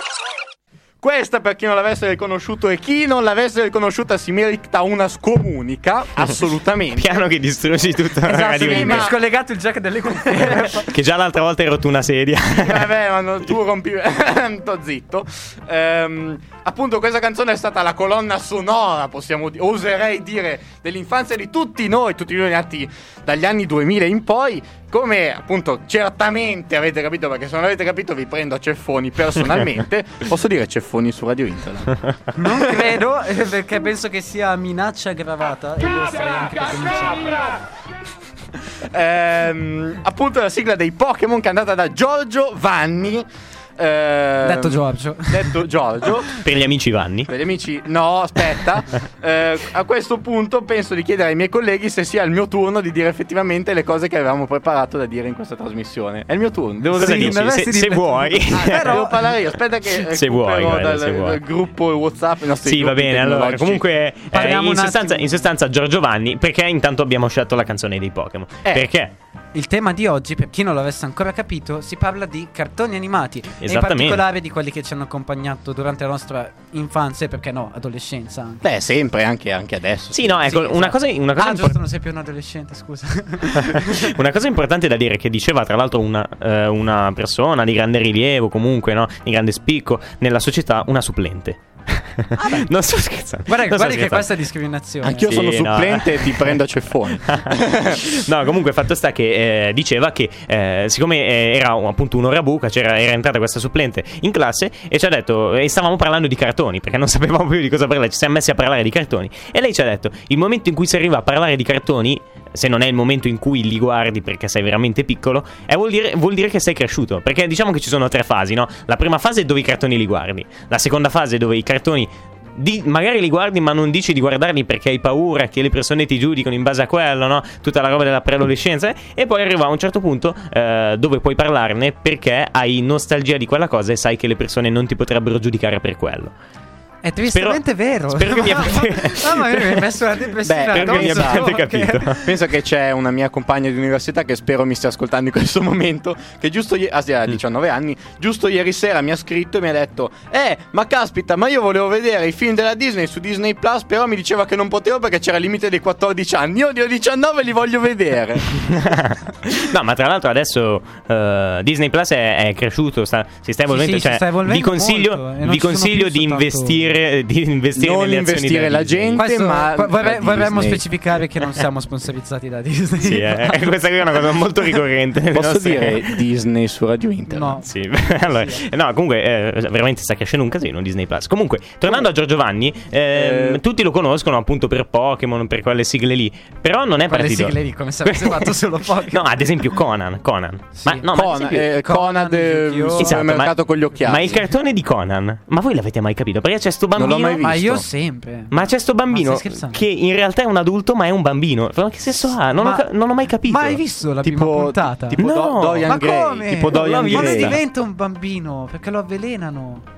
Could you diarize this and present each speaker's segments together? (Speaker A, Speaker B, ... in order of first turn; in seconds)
Speaker A: 1.0-7.2, 8.3-9.2, 12.5-31.9, 38.8-46.3, 47.3-57.5, 58.5-63.8, 78.6-80.5, 95.0-98.1, 140.4-141.6, 142.2-158.6, 167.8-170.8, 175.3-177.6, 183.1-183.6, 191.1-194.5, 196.9-197.8, 204.2-207.6
Speaker B: 7.0-9.2, 10.3-12.9, 46.4-47.3, 57.0-59.0, 60.0-61.4, 62.6-69.1, 73.6-74.2, 80.1-81.8, 83.6-94.3, 95.3-96.6, 97.2-136.3, 137.3-139.9, 140.7-142.2, 158.6-169.2, 173.0-176.2, 177.6-191.7, 193.0-197.4, 198.5-203.8, 205.2-205.9, 206.5-207.6
Speaker C: 8.3-10.9, 32.4-37.5, 44.4-45.6, 56.9-59.3, 64.3-65.5, 69.5-78.6, 80.5-84.2, 92.4-92.7, 93.5-95.4, 137.0-142.3, 163.7-166.9, 169.2-173.8, 177.3-178.7, 187.0-189.5, 190.8-193.2, 197.3-198.5, 199.1-199.8, 202.6-202.9, 203.4-209.8